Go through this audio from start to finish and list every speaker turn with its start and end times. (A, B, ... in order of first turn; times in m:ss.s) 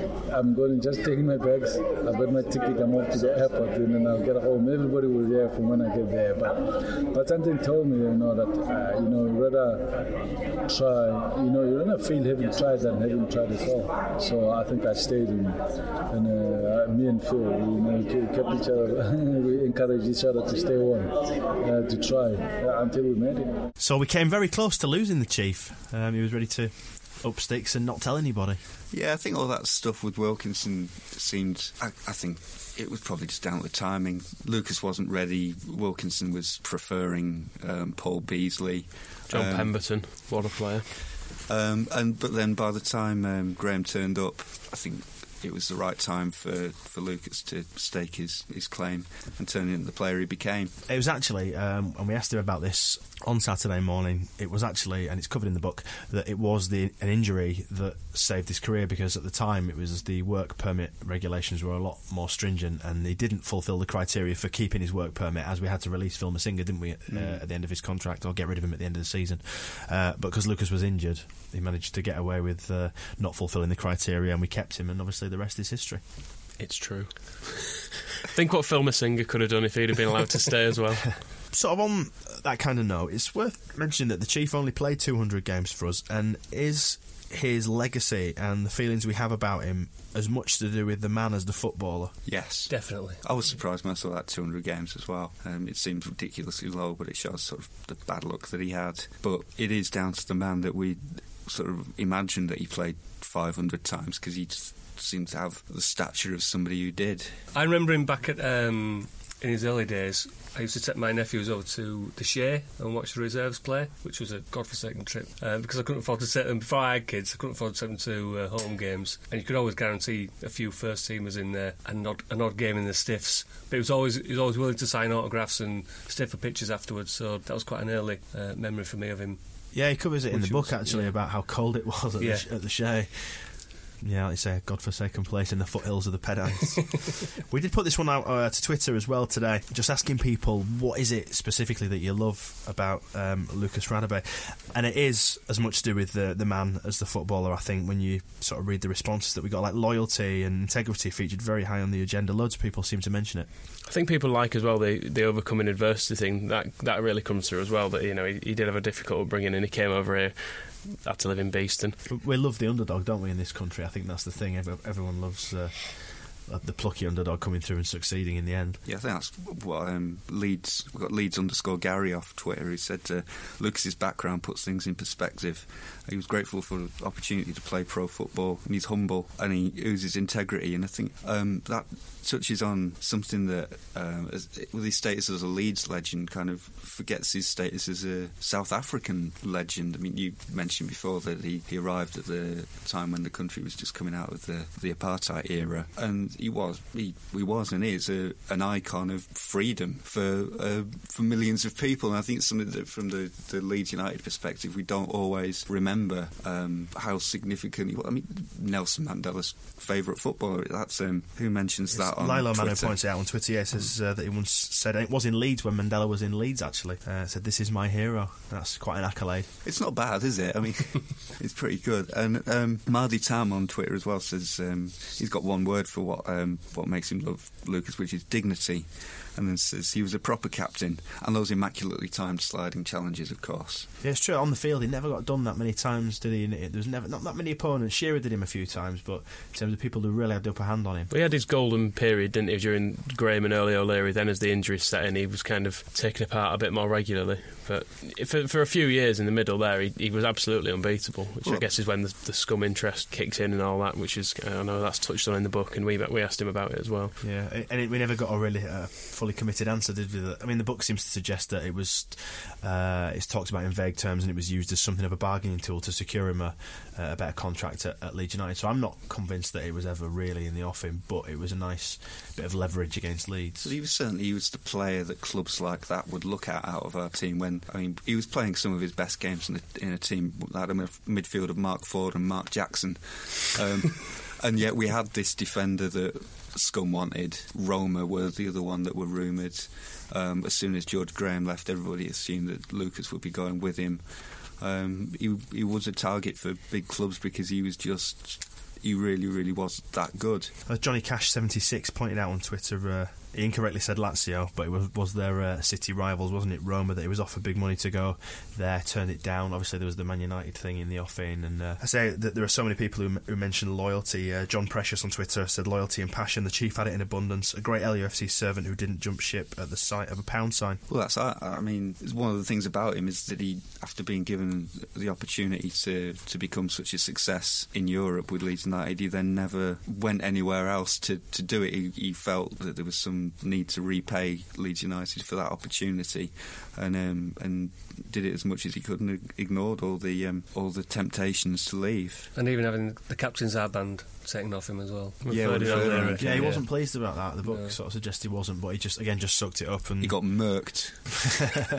0:00.3-0:10.1 A
0:10.6-0:23.6 A
0:23.8-0:28.6 B
0:28.9-0:39.9 C
0:39.3-0:40.9 D
0:41.5-0:50.8 C
0:50.9-1:16.0 B
1:07.1-1:07.4 C
1:16.6-1:21.1 D
1:21.5-1:32.1 B
1:32.3-1:47.4 C
1:32.7-1:33.2 E
1:47.5-2:11.1 E
2:09.7-2:33.5 B
2:12.2-2:12.5 E
2:33.9-2:42.0 D
2:42.1-2:48.8 B
2:48.8-3:33.0 C
3:31.9-3:39.5 B
3:39.6-3:53.9 C
3:54.0-4:01.1 B
4:01.1-4:17.2 D
4:11.4-4:11.7 C
4:17.2-4:33.7 B
4:33.6-5:00.5 C
5:00.6-5:20.8 B
5:20.9-5:42.3 C
5:42.3-5:47.8 E
5:45.2-5:46.6 D
5:45.3-5:46.6 C
5:45.8-5:50.8 B
5:50.0-5:51.1 C